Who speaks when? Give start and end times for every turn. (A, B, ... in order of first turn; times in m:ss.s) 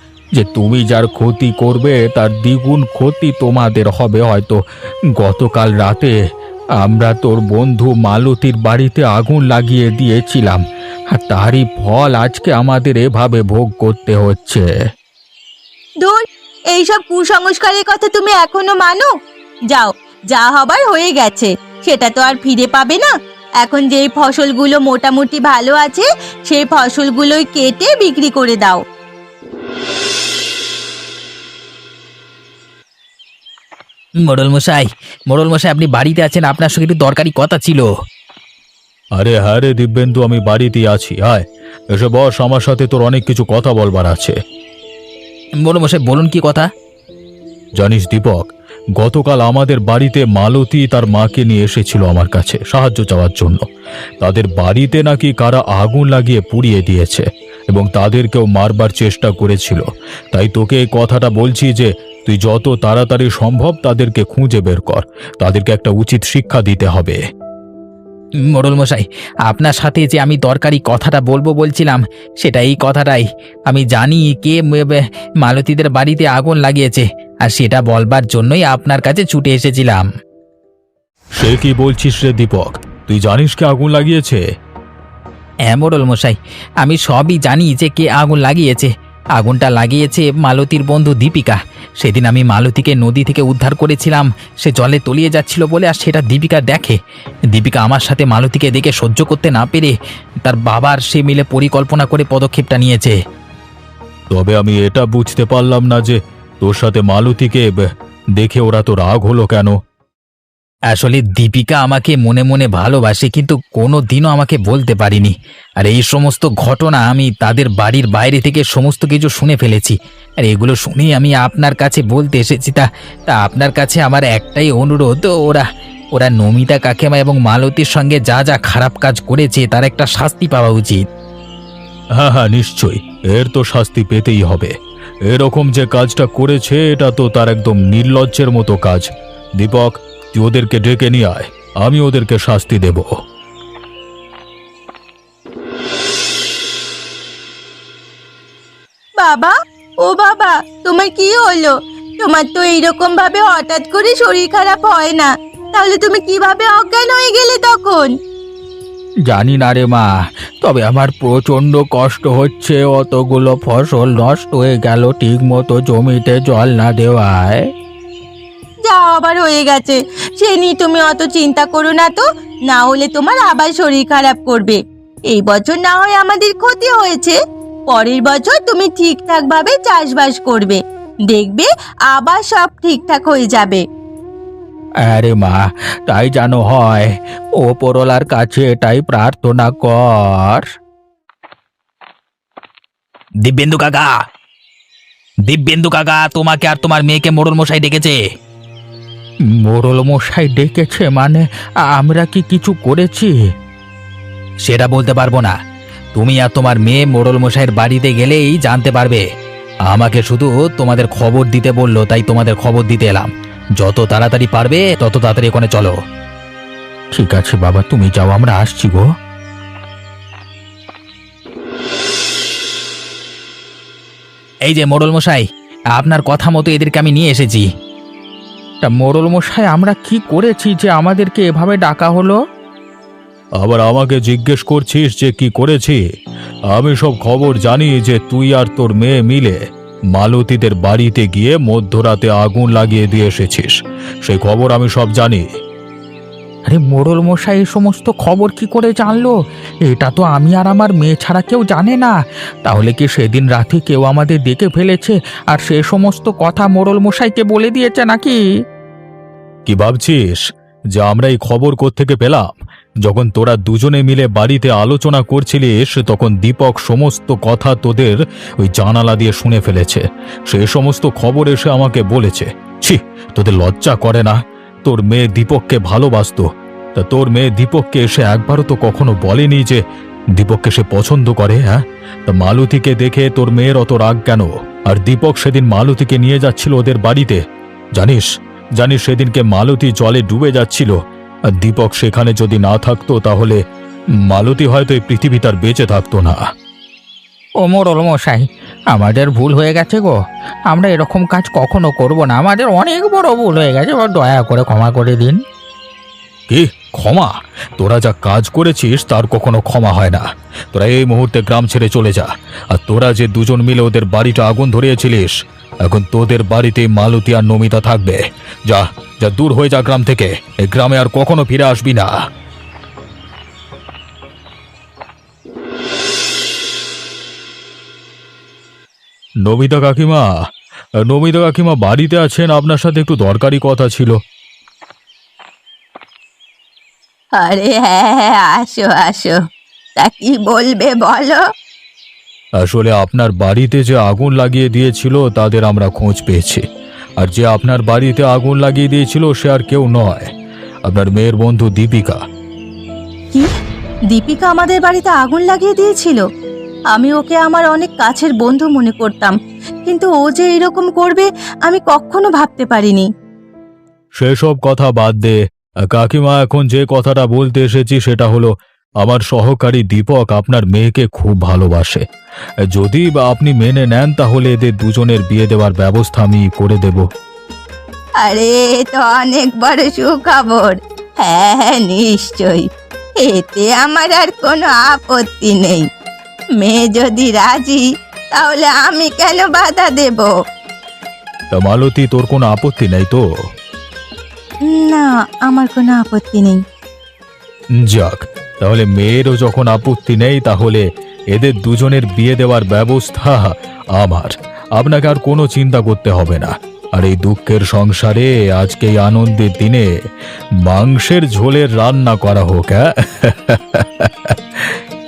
0:00.3-0:04.6 A
0:05.2-0:06.2 A
0:06.8-0:14.7 A
0:16.7-0:19.1 B
0:19.7-0:28.8 B
0:34.2-0:37.9 A
0:39.2-0:44.4 C
0:45.6-0:46.7 A
0:47.8-0:53.6 C
0:54.2-1:07.2 C
1:08.5-1:20.1 A
1:21.4-1:24.4 C
1:25.7-1:37.0 A
1:37.5-1:39.9 A
1:40.4-1:43.1 A
1:44.3-1:49.8 C
1:50.9-2:05.6 A
2:06.2-2:11.0 A
2:12.2-2:14.7 C
2:15.3-2:19.1 C
2:19.6-2:23.1 C
2:29.2-2:29.5 B
2:30.0-2:38.1 B
2:39.3-2:40.1 A
2:40.6-2:47.7 A
2:48.9-2:54.8 B
2:55.3-2:57.4 B
2:57.9-3:03.8 B
3:05.0-3:10.7 A
3:13.4-3:14.2 A
3:15.4-3:18.2 A
3:19.5-3:23.5 A
3:24.6-3:25.6 A
3:26.1-3:29.2 A
3:29.9-3:36.0 A
3:37.1-3:39.1 A
3:44.6-3:47.7 A
3:48.8-3:52.4 A
3:53.6-3:56.0 C
3:56.7-3:59.6 C
4:00.1-4:03.7 C
4:04.2-4:05.4 C
4:06.7-4:09.3 A
4:09.9-4:18.4 A
4:19.7-4:20.4 C
4:21.0-4:39.8 C
4:40.4-4:47.4 C
4:48.0-4:50.9 C
4:51.6-4:53.6 C
4:54.2-4:56.4 C
4:57.6-5:00.2 A
5:00.7-5:05.4 A
5:06.5-5:22.2 C
5:29.4-5:30.3 C
5:31.0-5:34.2 C
5:37.4-5:39.4 B
5:40.0-5:41.4 B
5:42.6-5:46.6 C
5:47.2-5:50.3 C
5:50.8-5:52.2 C
5:54.1-5:56.2 B
5:56.9-6:03.1 B
6:04.2-6:12.0 C
6:12.7-6:17.1 C
6:18.2-6:22.7 B
6:23.2-6:25.8 B
6:26.6-6:27.8 B
6:28.4-6:30.3 B
6:31.5-6:33.2 C
6:34.6-6:36.6 B
6:37.8-6:49.8 C
6:50.6-6:54.8 C